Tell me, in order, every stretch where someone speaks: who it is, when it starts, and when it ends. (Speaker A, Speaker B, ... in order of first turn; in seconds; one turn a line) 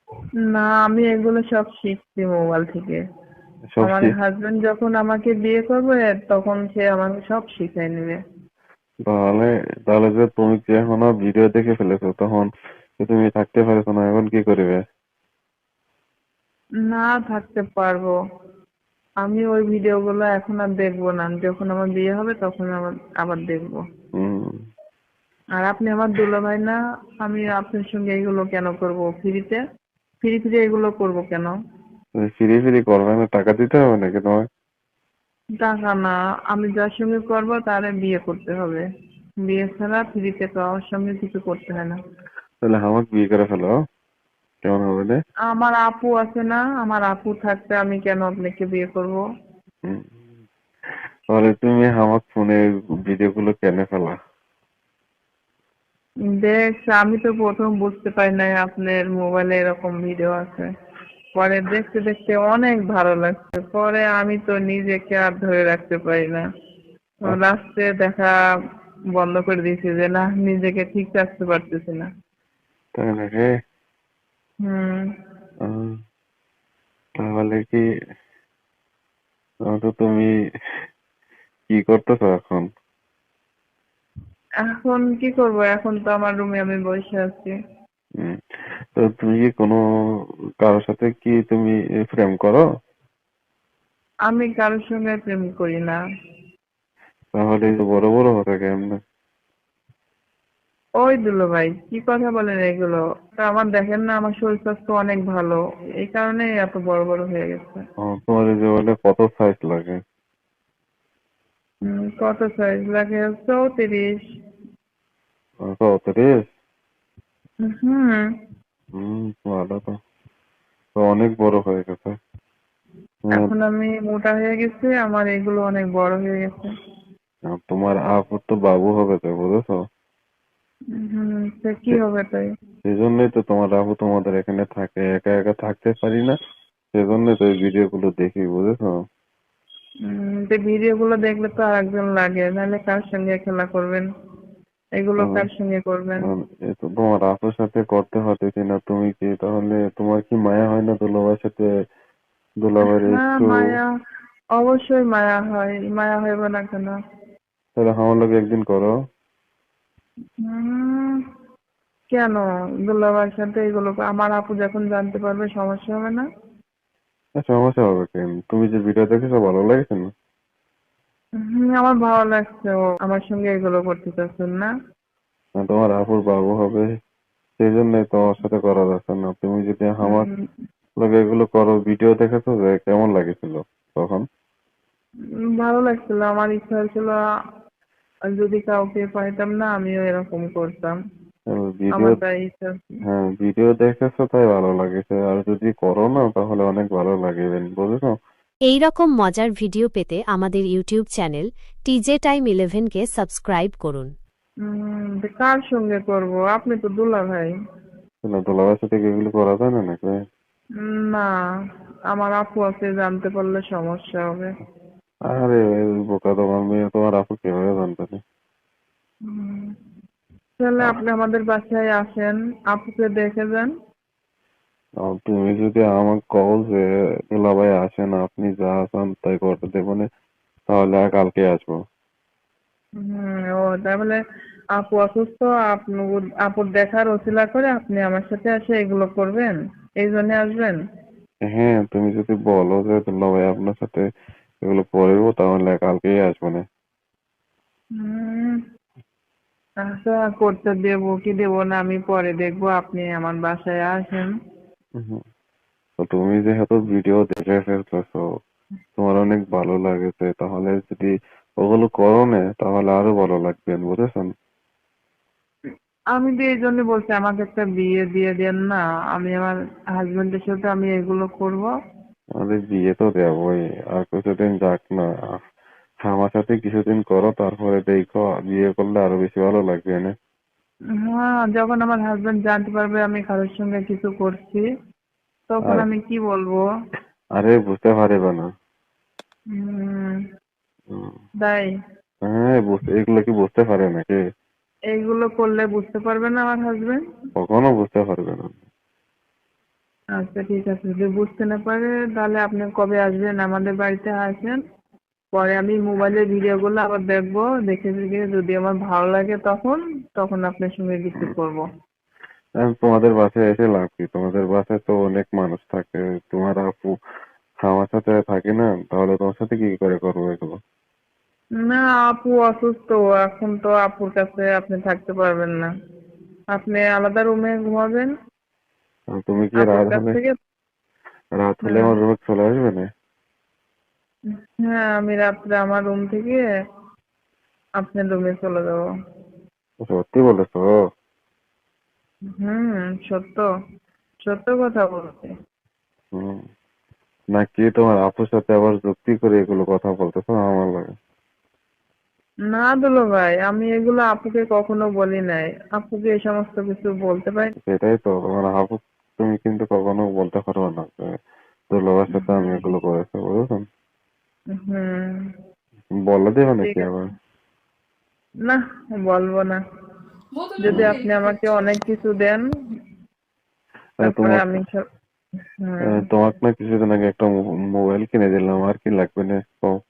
Speaker A: 0.5-3.0
Speaker B: 3.7-4.1
Speaker A: 3.8-8.2
Speaker B: 9.1-12.5
Speaker B: 13.0-14.8
Speaker A: 16.9-18.1
Speaker A: 19.2-23.8
Speaker B: 24.1-24.6
Speaker A: 25.6-29.6
Speaker A: 30.2-31.5
Speaker B: 32.1-34.4
Speaker A: 35.6-38.8
Speaker A: 39.5-42.0
Speaker B: 42.6-43.7
Speaker B: 44.6-45.2
Speaker A: 45.5-49.2
Speaker B: 51.3-54.1
Speaker A: 56.3-60.7
Speaker A: 61.4-66.4
Speaker A: 67.2-68.3
Speaker A: 69.2-72.1
Speaker B: 73.0-73.5
Speaker A: 74.6-75.1
Speaker B: 75.6-75.9
Speaker B: 77.2-77.8
Speaker B: 79.7-80.3
Speaker B: 81.7-82.7
Speaker A: 84.6-87.5
Speaker B: 88.9-89.8
Speaker B: 90.6-92.6
Speaker A: 94.3-96.0
Speaker B: 97.3-98.9
Speaker A: 101.0-107.8
Speaker B: 108.0-110.0
Speaker A: 111.8-114.2
Speaker B: 115.7-116.4
Speaker A: 117.7-118.2
Speaker B: 118.9-120.0
Speaker B: 121.0-122.1
Speaker B: 123.2-123.5
Speaker A: 123.3-126.7
Speaker B: 127.5-129.8
Speaker A: 131.0-132.5
Speaker B: 132.8-136.3
Speaker B: 136.9-139.0
Speaker A: 140.1-144.1
Speaker A: 145.0-146.3
Speaker B: 145.2-145.4
Speaker B: 146.2-151.7
Speaker B: 152.6-153.8
Speaker A: 152.9-153.8
Speaker A: 154.6-156.9
Speaker B: 157.8-158.9
Speaker A: 160.4-161.2
Speaker A: 162.1-166.2
Speaker B: 167.4-170.1
Speaker A: 171.4-174.7
Speaker B: 175.6-176.9
Speaker B: 177.6-180.3
Speaker A: 180.1-180.4
Speaker B: 181.0-184.2
Speaker A: 185.6-187.2
Speaker A: 188.4-190.9
Speaker B: 191.5-192.2
Speaker A: 191.9-192.9
Speaker B: 193.1-198.1
Speaker C: 198.7-204.1
Speaker A: 204.6-207.5
Speaker B: 208.2-210.2
Speaker A: 210.8-211.2
Speaker A: 212.1-214.5
Speaker B: 215.3-218.2
Speaker A: 219.3-219.7
Speaker A: 220.6-223.7
Speaker B: 225.0-230.1
Speaker B: 230.7-231.8
Speaker A: 233.0-234.2
Speaker A: 234.8-240.8
Speaker B: 241.4-244.0
Speaker B: 244.6-246.6
Speaker A: 248.0-248.6
Speaker A: 249.8-254.3
Speaker B: 256.0-258.2
Speaker B: 259.0-264.3
Speaker A: 266.1-271.7
Speaker B: 272.4-275.4
Speaker B: 276.0-280.1
Speaker A: 281.1-284.6
Speaker A: 285.5-286.6
Speaker B: 287.4-288.5
Speaker A: 289.5-290.2
Speaker A: 291.4-291.7
Speaker B: 292.3-294.2
Speaker A: 294.9-297.0
Speaker B: 297.4-298.6
Speaker A: 300.2-304.6
Speaker A: 305.3-311.6
Speaker B: 312.6-316.9
Speaker B: 317.6-320.6
Speaker A: 321.6-325.7
Speaker A: 326.5-328.1
Speaker B: 329.1-330.2
Speaker A: 329.6-330.3
Speaker B: 331.4-332.9
Speaker A: 331.6-332.0
Speaker A: 334.7-336.4
Speaker A: 337.8-338.8
Speaker B: 339.8-340.7
Speaker A: 342.4-343.4
Speaker A: 344.2-345.3
Speaker B: 346.1-346.4
Speaker B: 347.4-350.9
Speaker A: 352.5-357.5
Speaker B: 357.6-361.1
Speaker B: 361.7-363.6
Speaker A: 362.1-362.7
Speaker A: 364.6-365.1
Speaker B: 366.1-367.0
Speaker A: 366.6-366.9
Speaker A: 368.4-369.6
Speaker A: 370.6-372.4
Speaker B: 370.7-370.9
Speaker B: 374.0-374.6
Speaker A: 374.0-374.8
Speaker A: 375.6-376.0
Speaker B: 375.8-379.7